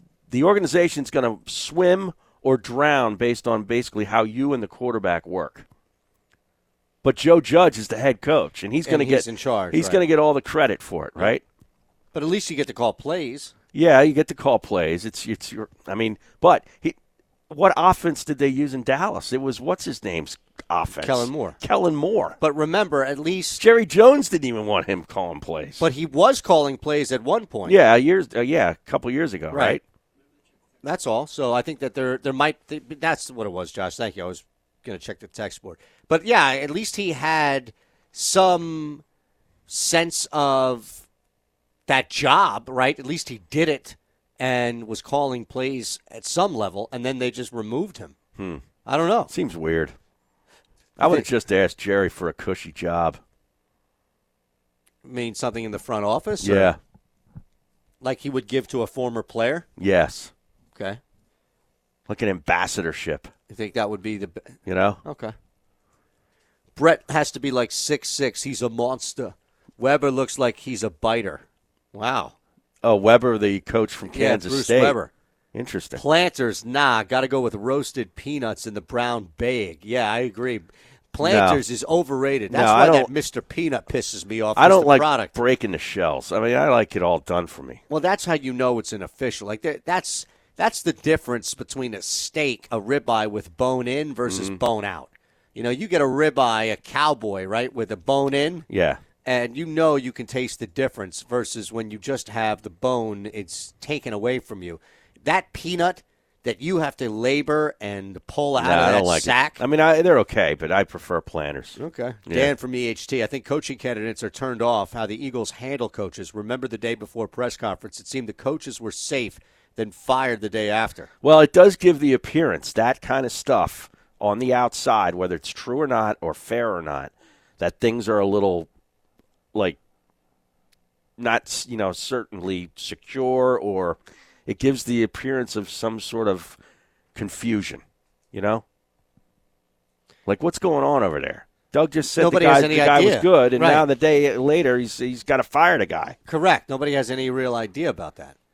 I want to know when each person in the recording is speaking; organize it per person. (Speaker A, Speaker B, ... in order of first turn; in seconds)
Speaker A: 0.3-5.7, 7.0-11.4, 13.7-16.9, 17.5-22.4, 23.6-25.8, 27.6-29.8, 48.4-48.6, 49.3-49.9, 51.0-53.2, 56.4-56.8, 59.8-60.3, 62.1-63.3, 64.7-65.0, 72.8-75.0, 75.5-76.0, 81.2-81.6, 82.5-83.1, 84.5-87.8, 94.3-94.6, 98.7-99.0, 108.6-111.8, 121.2-128.7, 131.2-136.6, 137.1-137.8, 138.3-138.6, 140.2-146.2
Speaker B: 8.8-10.0, 12.1-13.5, 21.0-21.6, 22.4-23.6, 25.8-27.8, 29.5-29.8, 30.8-39.0, 39.7-41.0, 41.9-48.2, 48.8-49.3, 55.0-56.7, 58.0-59.6, 60.7-61.0, 63.5-65.3, 66.8-72.3, 74.1-75.1, 76.0-85.3, 87.9-98.6, 99.2-109.6, 111.8-121.1, 142.2-143.8, 146.2-148.3